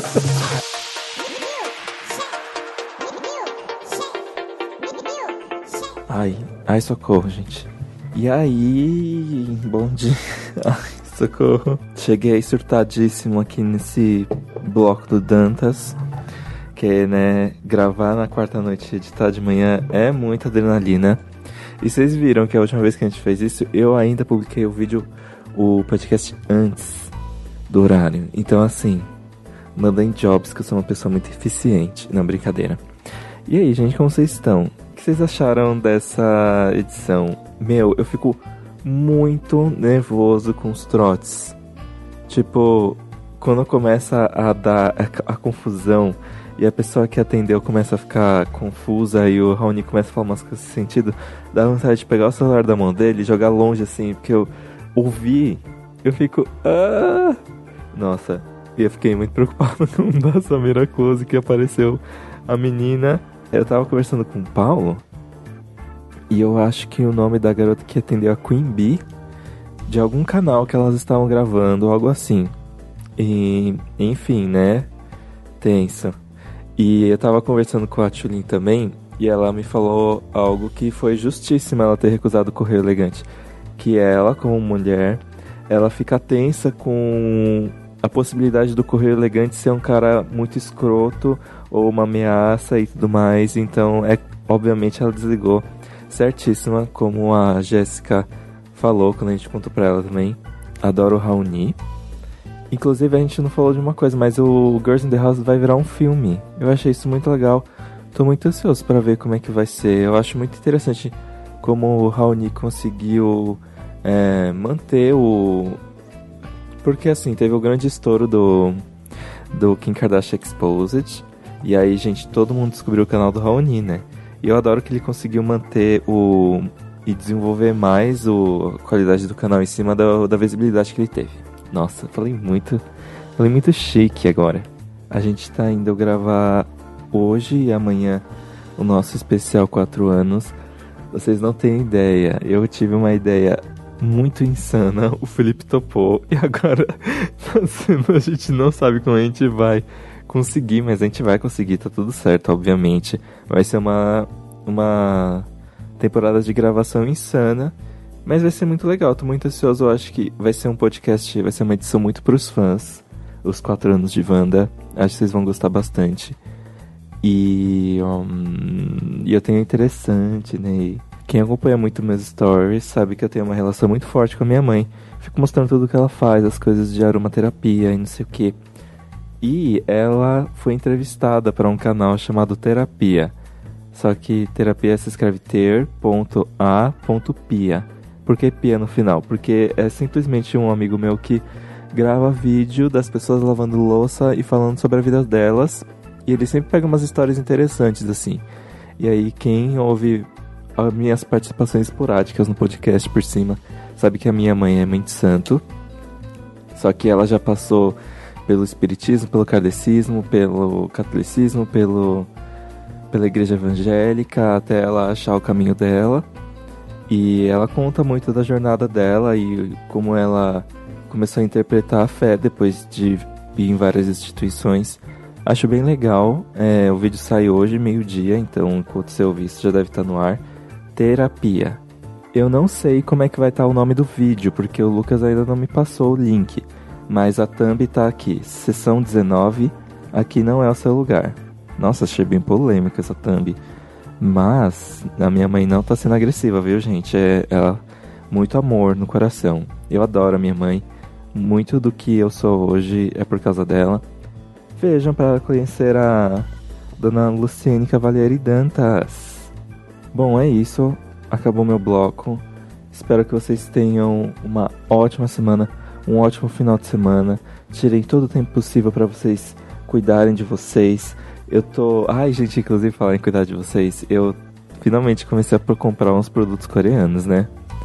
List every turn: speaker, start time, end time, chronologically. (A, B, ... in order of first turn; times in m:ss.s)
0:06.1-0:16.0 A
0:16.8-0:21.2 A
0:21.8-0:27.1 A
0:27.7-0:29.1 A
0:29.8-0:32.8 A
0:33.5-0:41.6 A
0:42.3-0:57.4 A
0:57.9-1:05.0 A
1:06.3-1:09.0 A
1:09.9-1:12.5 A
1:13.2-1:14.9 A
1:15.6-1:16.2 A
1:16.8-1:23.3 A
1:23.8-1:41.8 A
1:42.7-1:55.8 A
1:56.8-1:58.8 A
1:59.5-2:12.8 A
2:13.4-2:18.2 A
2:18.8-2:20.6 A
2:21.1-2:35.5 A
2:36.0-2:37.8 A
2:38.3-2:46.4 A
2:47.2-2:58.6 A
2:59.4-3:03.3 A
3:03.9-3:18.4 A
3:19.0-3:25.6 A
3:26.8-3:32.3 A
3:33.1-3:36.3 A
3:37.1-3:50.4 A
3:51.0-3:51.8 A
3:52.3-4:03.6 A
4:04.2-4:14.0 A
4:14.8-4:19.5 A
4:20.1-4:37.5 A